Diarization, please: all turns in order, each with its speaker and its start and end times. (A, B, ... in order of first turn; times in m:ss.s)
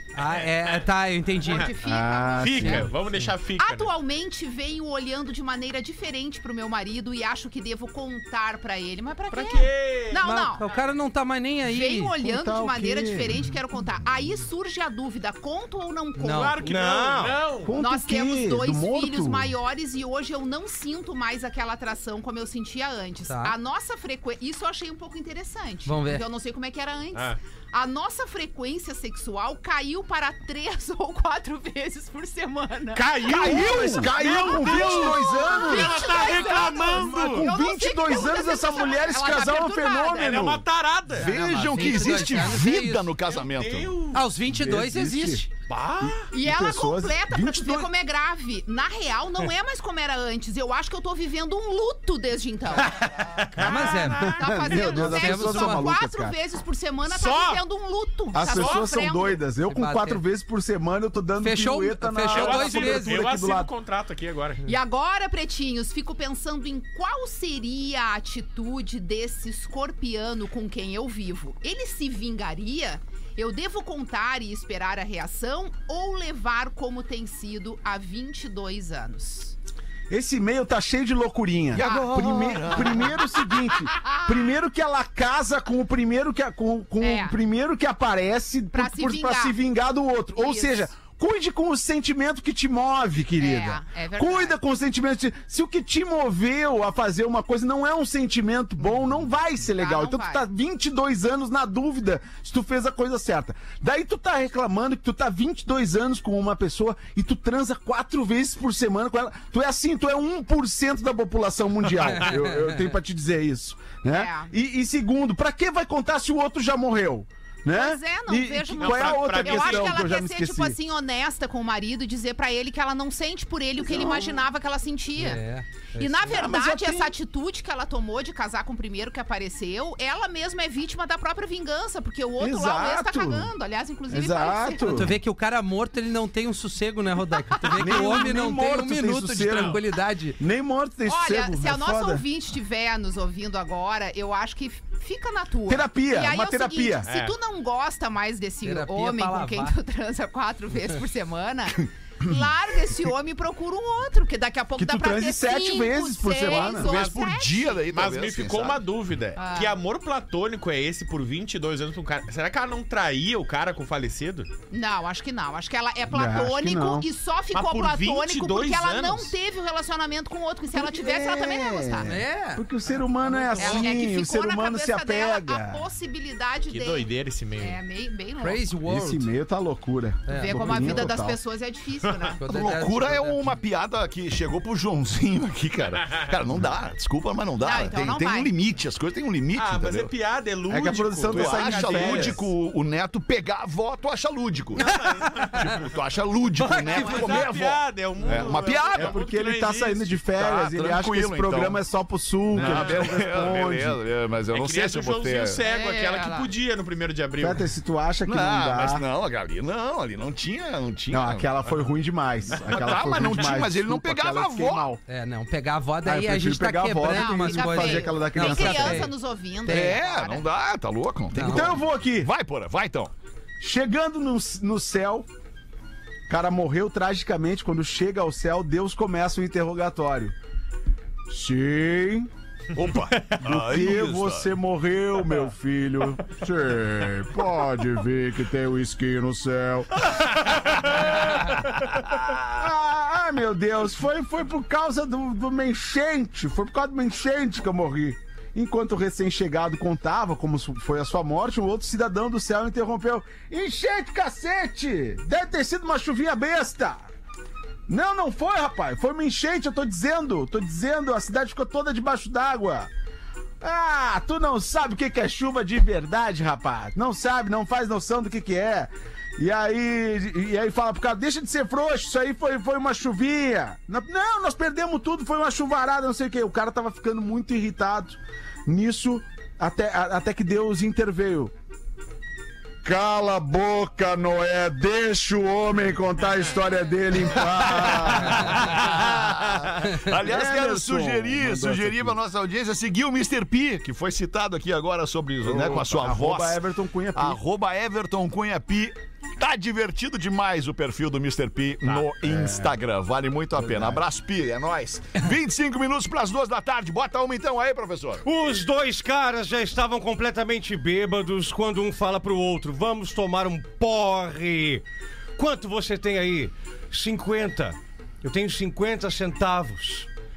0:00.2-0:01.7 A
0:00.2-0:00.9 B
0:01.4-0:01.7 B
0:01.5-0:02.9 C
0:01.8-0:02.9 D
0:02.4-0:03.9 B
0:03.6-0:10.6 C
0:09.3-0:10.2 B
0:10.2-0:12.1 A
0:11.6-0:16.6 C
0:12.2-0:13.4 D
0:16.2-0:16.6 A
0:16.3-0:17.7 B
0:16.6-0:17.4 E
0:17.6-0:19.5 D
0:17.8-0:40.4 C
0:23.3-0:23.6 A
0:25.8-0:26.2 A
0:32.9-0:37.5 B
0:33.2-0:35.1 F
0:33.2-0:40.6 D
0:37.1-0:37.4 F
0:40.2-0:41.3 B
0:41.1-0:44.0 F
0:41.2-0:43.1 A
0:43.3-0:44.2 B
0:44.1-0:45.5 A
0:44.5-0:45.4 D
0:45.7-0:46.3 B
0:46.0-0:47.9 D
0:46.3-0:59.4 C
0:53.4-0:54.3 B
0:53.6-0:55.9 A
0:54.2-0:56.4 D
0:57.1-0:57.6 B
0:58.3-1:03.7 D
0:58.4-0:58.9 B
0:59.7-1:00.2 A
1:01.4-1:03.2 A
1:02.3-1:04.7 B
1:04.7-1:19.6 C
1:20.1-2:00.8 D
1:21.7-1:23.1 F
1:21.8-1:24.5 C
1:27.0-1:27.4 C
1:28.7-1:29.6 C
1:30.4-1:30.9 C
1:33.4-1:34.6 C
1:39.8-1:40.4 C
1:52.2-1:52.7 A
1:54.1-1:54.5 C
1:57.7-2:05.4 C
1:58.8-2:00.1 B
2:03.8-2:04.4 D
2:05.2-2:06.4 A
2:06.0-2:15.0 C
2:06.3-2:07.1 D
2:12.4-2:13.5 D
2:14.1-2:15.2 D
2:14.8-2:20.4 A
2:17.6-2:18.1 C
2:17.8-2:19.8 D
2:19.5-2:19.8 B
2:20.4-2:22.2 D
2:21.1-2:37.8 C
2:25.7-2:27.1 D
2:27.1-2:27.4 B
2:28.6-2:29.8 A
2:34.8-2:37.0 D
2:36.7-2:38.8 F
2:37.9-2:44.5 B
2:39.4-2:39.8 C
2:44.7-2:52.1 C
2:46.1-2:47.1 D
2:47.5-2:49.3 B
2:50.7-2:55.9 D
2:52.0-2:52.6 A
2:53.6-2:58.7 C
2:53.6-2:53.9 B
2:56.7-2:57.8 B
2:58.4-2:59.3 A
2:58.9-3:01.4 D
3:00.3-3:01.1 A
3:00.3-3:02.4 C
3:02.4-3:03.5 A
3:02.5-3:10.1 F
3:07.6-3:08.5 C
3:09.6-3:12.5 B
3:10.7-3:12.4 D
3:11.3-3:14.9 F
3:14.8-3:15.7 A
3:14.8-3:15.9 B
3:15.4-3:19.2 F
3:16.6-3:17.5 A
3:16.9-3:20.2 B
3:18.3-3:24.0 D
3:20.4-3:21.8 F
3:22.5-3:23.3 B
3:22.5-3:25.6 F
3:24.5-3:27.7 B
3:25.6-3:26.5 C
3:27.4-3:29.1 D
3:28.3-3:31.5 F
3:31.1-3:35.0 D
3:32.6-3:32.9 B
3:32.6-3:34.9 F
3:35.1-3:39.1 A
3:36.0-3:39.1 D
3:37.1-3:40.5 C
3:39.6-3:40.0 A
3:39.7-3:43.1 F
3:41.3-3:41.7 A
3:41.4-3:42.3 D
3:43.6-3:45.3 D
3:46.3-3:50.4 D
3:51.3-3:52.3 D
3:52.8-3:54.5 F
3:53.4-4:00.3 D
4:02.6-4:17.1 D
4:17.9-4:22.9 D
4:23.6-4:41.5 D
4:42.8-4:49.2 D
4:47.6-4:56.6 F
4:50.0-4:52.2 D
4:55.4-4:57.4 D
4:57.2-5:08.2 F
5:02.2-5:02.7 D
5:03.6-5:04.0 D
5:08.2-5:14.8 E
5:15.4-5:20.1 E